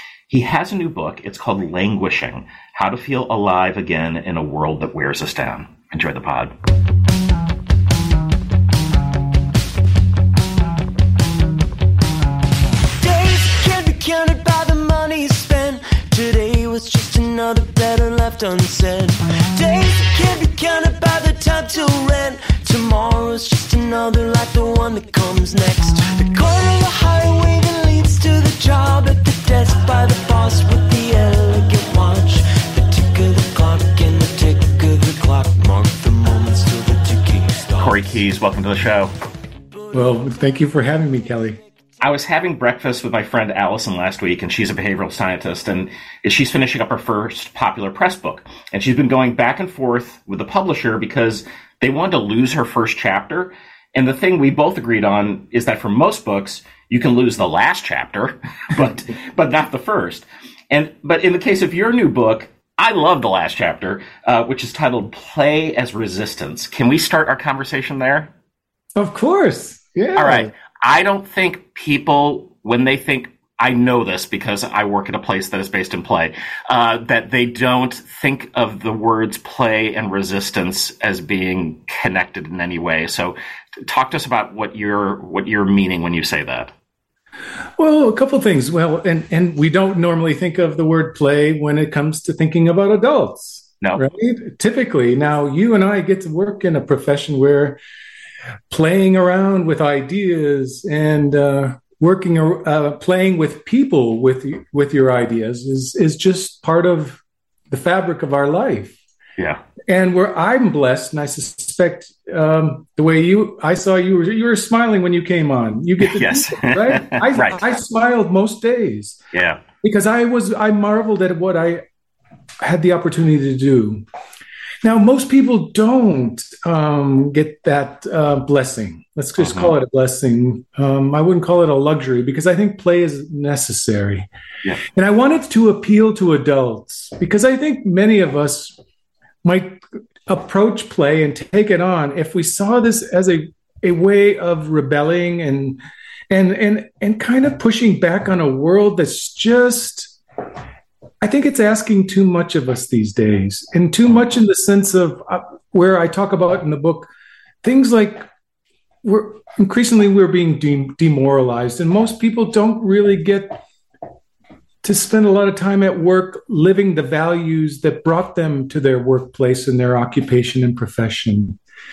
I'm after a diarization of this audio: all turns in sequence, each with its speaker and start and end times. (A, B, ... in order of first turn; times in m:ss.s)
0:00.3-0:06.5 A
0:13.0-0:38.1 B
0:37.8-0:39.1 A
0:39.9-0:41.6 C
0:42.0-1:08.3 A
1:09.0-1:10.5 C
1:10.2-1:26.7 A
1:27.8-1:37.8 C
1:38.7-1:49.0 C
1:49.9-1:59.2 C
1:56.0-1:57.6 A
1:59.3-1:59.6 A
1:59.8-2:01.8 C
2:02.6-2:04.0 C
2:04.8-2:14.3 C
2:09.4-2:09.7 A
2:14.9-2:18.8 C
2:19.4-2:30.2 C
2:31.2-2:37.1 C
2:37.6-2:38.3 C
2:39.0-2:43.6 C
2:44.8-2:51.6 C